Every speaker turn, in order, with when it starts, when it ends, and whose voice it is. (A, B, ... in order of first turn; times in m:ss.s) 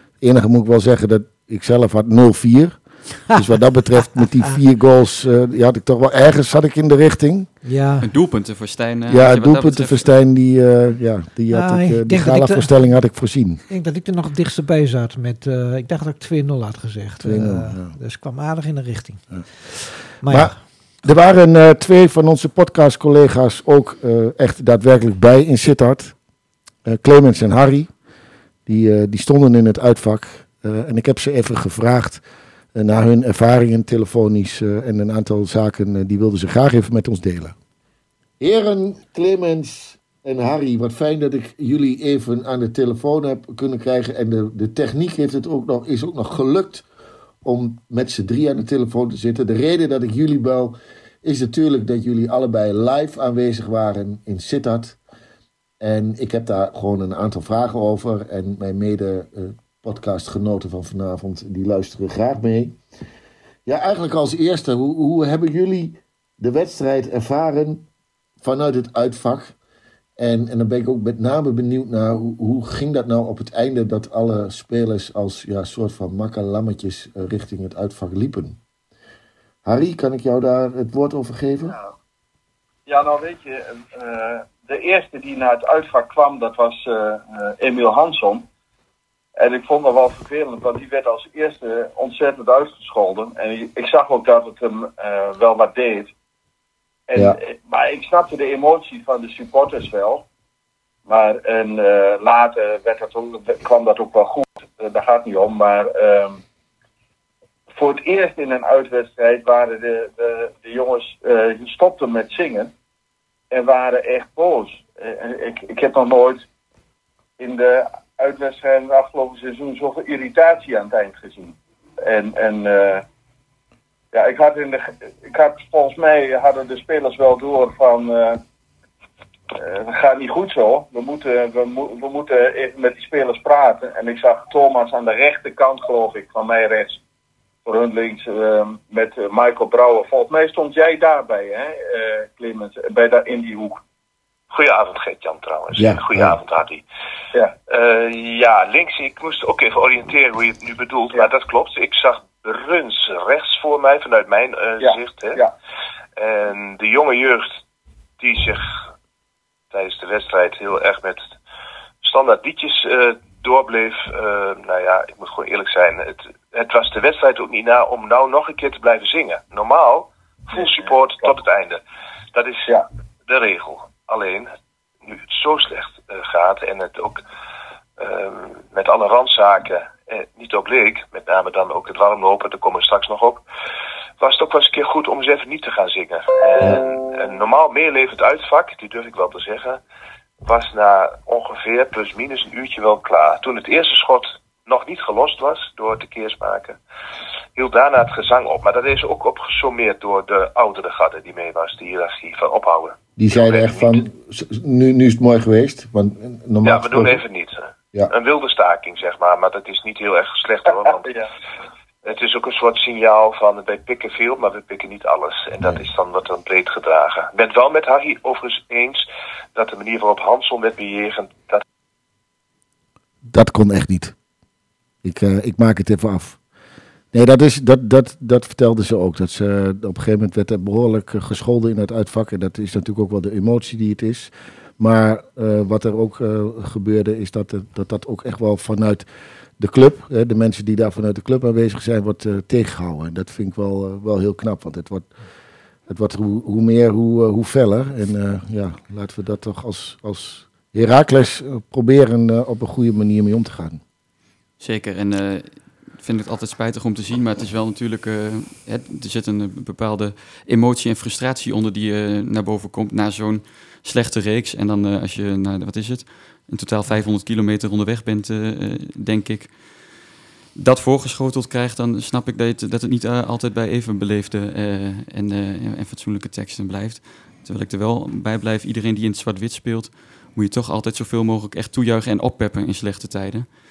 0:00.2-0:07.5 A
0:04.2-0:04.4 B
0:07.6-0:08.1 B
0:08.0-0:10.1 C
0:09.1-0:13.6 A
0:11.5-0:12.7 B
0:13.7-0:19.2 B
0:17.2-0:17.9 A
0:20.2-0:20.6 B
0:20.2-0:26.1 A
0:26.8-0:27.9 A
0:28.6-0:32.2 A
0:32.7-0:37.5 A
0:38.4-0:46.9 A
0:47.4-0:55.0 A
0:55.8-1:02.8 A
1:03.6-1:07.9 A
1:08.4-1:09.5 A
1:10.2-1:18.6 A
1:19.6-1:21.8 A
1:22.9-1:28.4 D
1:29.4-1:36.1 D
1:37.1-1:40.2 D
1:41.0-1:46.4 D
1:47.7-1:52.7 D
1:53.5-1:56.4 D
1:57.4-2:03.0 D
2:04.1-2:08.4 D
2:09.5-2:17.0 D
2:17.6-2:23.8 D
2:24.5-2:26.8 E
2:25.8-2:26.4 A
2:27.7-2:35.4 E
2:34.8-2:35.5 D
2:36.2-2:37.5 E
2:38.2-2:38.6 E
2:39.7-2:41.3 E
2:42.0-2:51.8 E
2:52.3-2:52.7 E
2:53.3-2:54.5 E
2:55.0-2:57.2 E
2:58.0-3:03.4 E
3:04.2-3:09.8 E
3:10.4-3:16.8 E
3:17.6-3:24.0 E
3:23.2-3:27.2 A
3:26.6-3:31.2 E
3:32.0-3:41.6 E
3:43.3-3:44.1 A
3:45.0-3:46.4 A
3:47.1-3:59.0 A
3:59.6-4:05.1 A
4:05.9-4:13.8 A
4:14.6-4:29.6 C
4:30.6-4:43.5 C